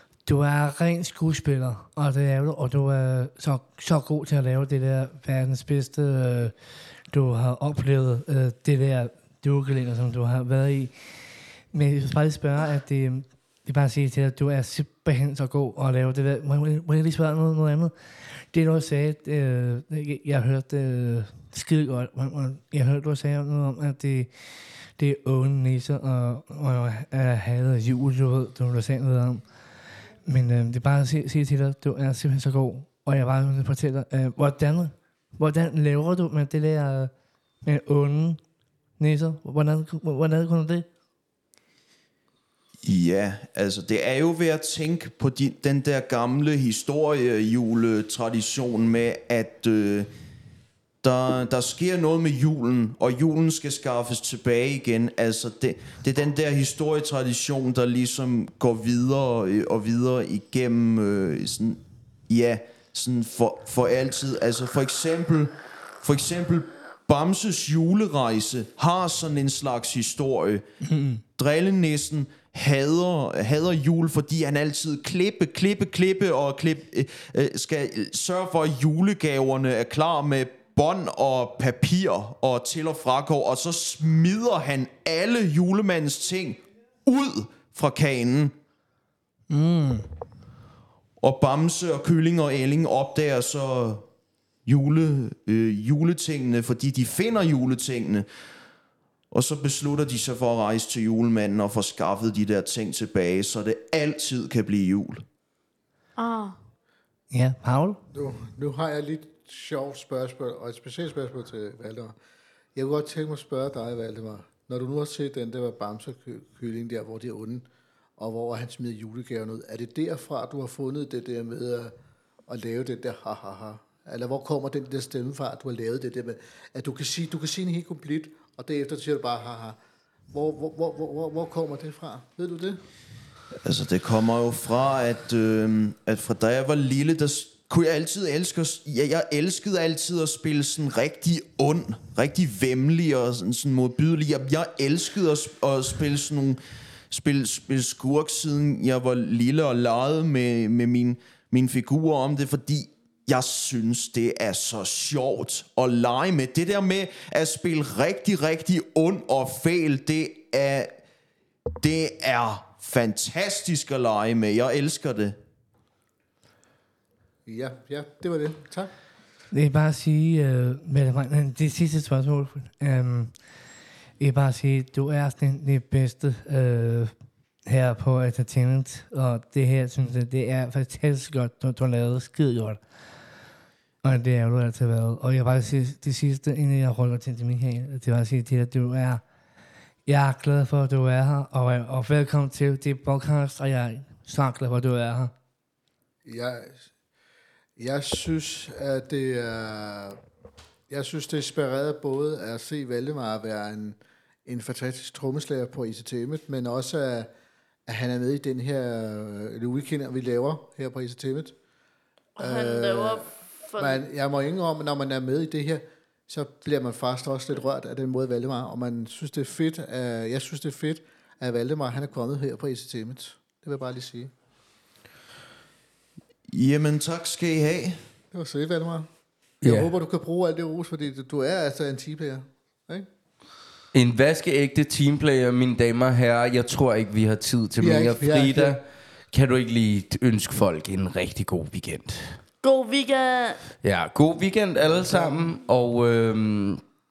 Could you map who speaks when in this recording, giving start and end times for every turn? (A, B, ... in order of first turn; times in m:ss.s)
0:00.2-0:37.1 A
0:37.6-0:38.4 A
0:39.0-0:40.8 A
0:42.8-0:50.1 B
0:51.0-1:10.6 B
1:10.8-1:11.2 A
1:11.4-1:28.5 B
1:29.5-1:30.1 A
1:31.2-1:34.1 B
1:34.6-1:38.3 B
1:39.3-1:45.2 B
1:46.2-1:46.6 C
1:47.3-1:48.0 A
1:48.1-1:52.1 D
1:52.7-2:01.9 D
2:02.5-2:09.8 D
2:10.3-2:12.8 D
2:13.5-2:41.0 B
2:41.8-2:45.4 B
2:47.4-2:48.9 D
2:49.5-2:53.6 A
2:54.2-2:57.1 A
2:57.6-3:02.8 A
3:04.0-3:09.2 A
3:10.0-3:15.3 A
3:16.2-3:16.9 D
3:17.8-3:20.2 D
3:20.9-3:27.3 D
3:27.9-3:31.6 D
3:32.4-3:34.0 C
3:32.4-3:44.3 D
3:46.5-3:48.0 B
3:48.3-3:49.1 D
3:49.6-3:53.1 D
3:49.6-3:49.9 E
3:53.9-4:02.4 E
3:57.8-3:58.8 D
4:02.6-4:03.7 C
4:03.8-4:06.8 E
4:04.8-4:05.5 D